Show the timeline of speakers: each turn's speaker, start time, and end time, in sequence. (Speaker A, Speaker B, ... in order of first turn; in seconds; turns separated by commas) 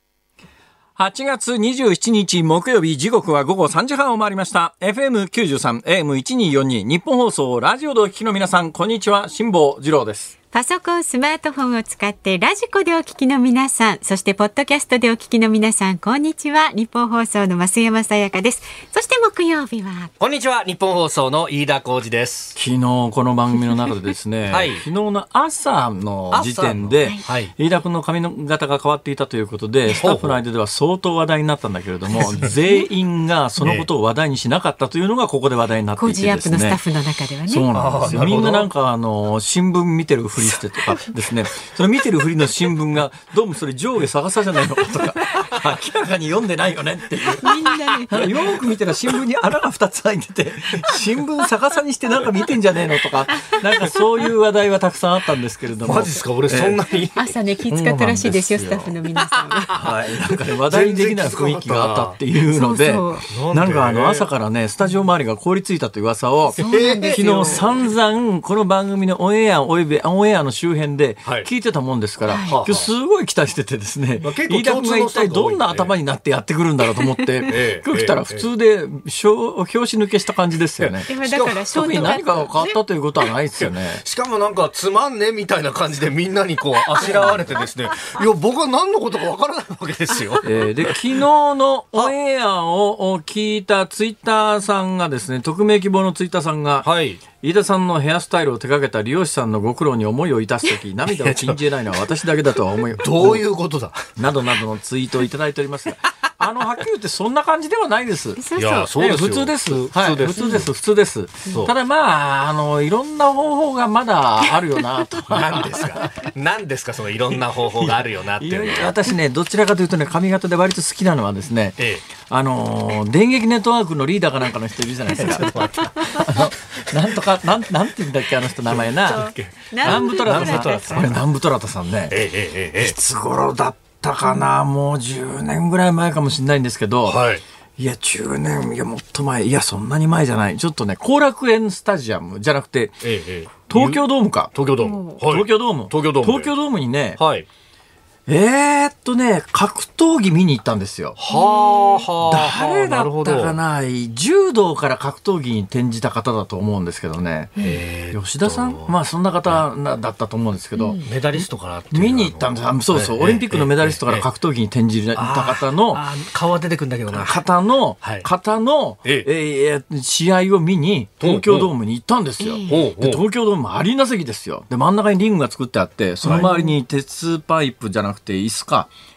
Speaker A: 1.0-10.3, Speaker B: 10.5-20.1, Speaker C: 20.2-22.6, Speaker A: 22.6-36.8, Speaker C: 24.5-24.9, Speaker C: 26.3-27.5, Speaker C: 29.9-30.4, Speaker C: 33.6-33.9, Speaker B: 36.0-37.7, Speaker A: 37.5-56.8, Speaker C: 37.7-38.7, Speaker B: 47.4-48.5, Speaker B: 53.3-53.6, Speaker C: 55.8-57.4, Speaker B: 57.2-59.8, Speaker A: 57.7-59.0, Speaker C: 59.4-62.2, Speaker A: 59.7-84.0, Speaker B: 62.4-63.3, Speaker C: 63.3-64.3, Speaker B: 66.6-67.7, Speaker C: 66.7-67.8, Speaker B: 72.3-72.6, Speaker C: 72.5-72.9, Speaker C: 74.2-75.9, Speaker C: 77.5-78.5, Speaker C: 80.8-82.2, Speaker B: 81.1-82.8, Speaker C: 83.6-91.0, Speaker A: 87.1-87.5, Speaker A: 90.4-96.9, Speaker C: 96.8-97.2, Speaker A: 97.4-103.4, Speaker C: 101.1-101.6, Speaker C: 102.9-104.1, Speaker A: 104.2-108.4, Speaker B: 108.4-108.9, Speaker C: 108.6-110.7, Speaker A: 109.0-116.1, Speaker C: 115.2-119.0, Speaker A: 117.8-132.2, Speaker C: 125.1-126.5, Speaker C: 128.7-131.2, Speaker B: 129.1-131.2, Speaker C: 132.1-132.9, Speaker A: 132.8-137.2, Speaker C: 137.1-137.4, Speaker A: 137.8-143.0, Speaker C: 143.0-146.5, Speaker A: 143.7-144.6, Speaker B: 144.8-145.2, Speaker A: 145.2-147.2, Speaker C: 147.2-147.5, Speaker A: 148.3-151.2, Speaker C: 151.2-153.6, Speaker B: 151.3-152.1, Speaker A: 152.2-166.0, Speaker C: 157.6-158.9, Speaker B: 160.8-161.1, Speaker C: 161.0-164.3, Speaker C: 165.2-167.4, Speaker A: 167.1-178.9, Speaker C: 168.0-168.3, Speaker C: 171.2-171.7, Speaker B: 172.4-172.8, Speaker C: 172.7-173.2, Speaker B: 176.2-176.7